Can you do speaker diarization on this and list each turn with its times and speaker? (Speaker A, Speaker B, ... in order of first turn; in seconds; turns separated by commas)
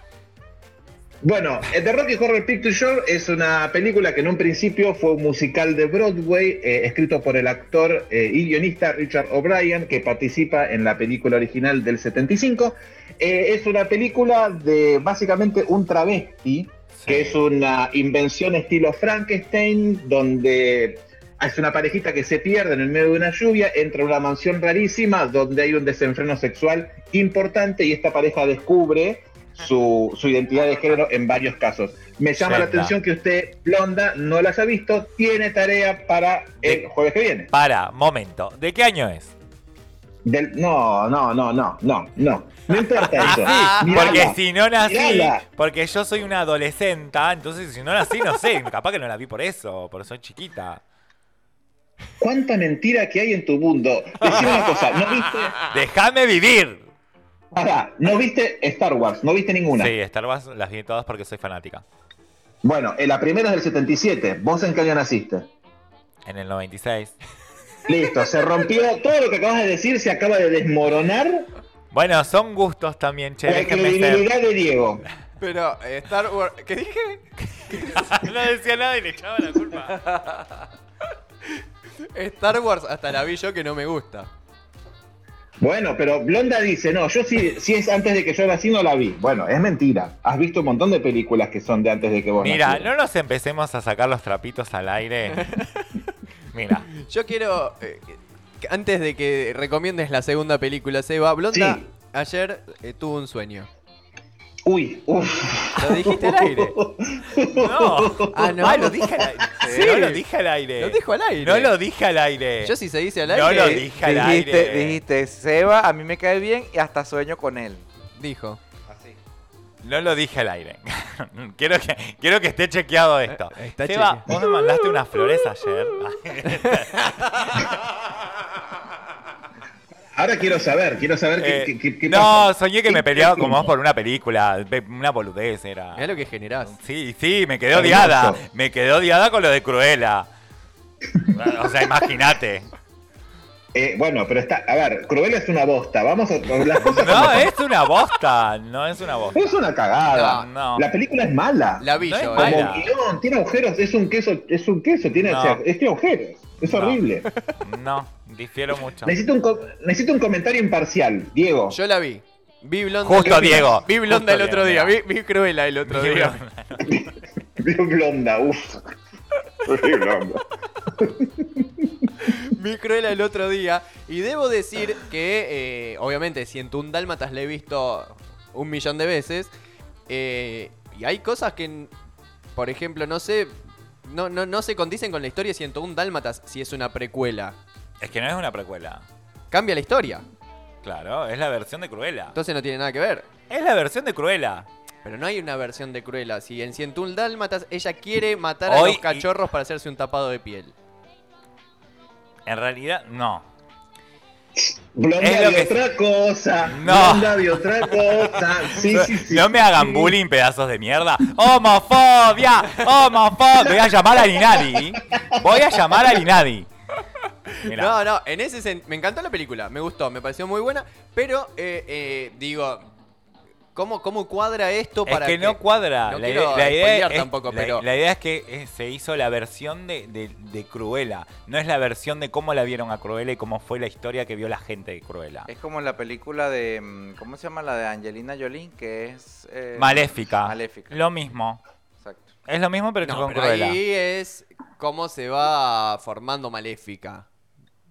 Speaker A: 1.2-37.5, Speaker B: 17.0-17.4, Speaker B: 32.4-32.9, Speaker B: 37.5-39.3, Speaker A: 40.2-45.4, Speaker B: 43.1-50.8, Speaker C: 43.2-44.2, Speaker A: 52.2-55.6, Speaker B: 55.6-56.8, Speaker A: 57.5-59.9, Speaker B: 59.8-61.8, Speaker A: 62.6-65.5, Speaker B: 66.3-67.2, Speaker A: 67.9-71.5, Speaker B: 71.9-74.3, Speaker A: 73.5-75.1, Speaker C: 75.4-78.2, Speaker B: 77.8-80.0, Speaker C: 82.1-84.3, Speaker A: 85.6-92.9, Speaker B: 92.4-95.6, Speaker C: 95.4-95.8, Speaker B: 96.5-96.9, Speaker C: 96.9-103.7, Speaker A: 101.5-101.9, Speaker A: 104.7-109.4, Speaker C: 105.8-106.8, Speaker B: 107.5-115.0, Speaker C: 108.3-110.2, Speaker D: 109.6-110.0, Speaker C: 110.8-111.7, Speaker C: 112.6-113.9, Speaker D: 113.9-117.8, Speaker C: 118.2-118.6, Speaker D: 118.9-119.2, Speaker B: 119.8-127.7, Speaker C: 123.3-124.3, Speaker C: 126.5-127.6, Speaker A: 130.1-133.7, Speaker B: 131.4-136.1, Speaker C: 136.0-136.8, Speaker B: 136.7-140.3, Speaker A: 137.7-138.4, Speaker B: 141.2-142.7, Speaker A: 143.7-147.5, Speaker B: 146.8-149.6, Speaker A: 149.3-157.3, Speaker C: 150.1-150.5, Speaker B: 150.2-150.8, Speaker C: 151.8-152.7, Speaker B: 152.0-152.9, Speaker B: 155.2-155.6, Speaker B: 156.6-157.0, Speaker B: 157.6-159.2, Speaker A: 159.1-161.8, Speaker C: 161.7-166.4, Speaker B: 163.0-165.0, Speaker A: 163.2-163.7, Speaker B: 165.9-167.0, Speaker A: 166.8-168.9, Speaker A: 169.6-170.4, Speaker A: 171.0-171.7, Speaker C: 172.2-179.5, Speaker C: 180.1-181.9, Speaker C: 182.6-183.5, Speaker C: 184.1-187.6, Speaker B: 188.0-189.0, Speaker C: 189.5-190.2, Speaker B: 190.8-192.3, Speaker C: 192.3-193.3, Speaker B: 193.5-194.7, Speaker C: 195.1-200.8, Speaker B: 198.7-199.2, Speaker B: 202.5-203.5, Speaker A: 204.6-210.2, Speaker B: 205.2-205.8, Speaker B: 206.7-207.5, Speaker B: 208.8-216.7, Speaker A: 215.2-215.5, Speaker C: 217.6-222.9, Speaker B: 217.6-218.0, Speaker C: 223.8-227.8, Speaker B: 225.1-235.5, Speaker D: 235.5-241.0, Speaker B: 239.8-241.6, Speaker D: 242.0-242.3, Speaker B: 242.5-243.8, Speaker C: 243.0-247.3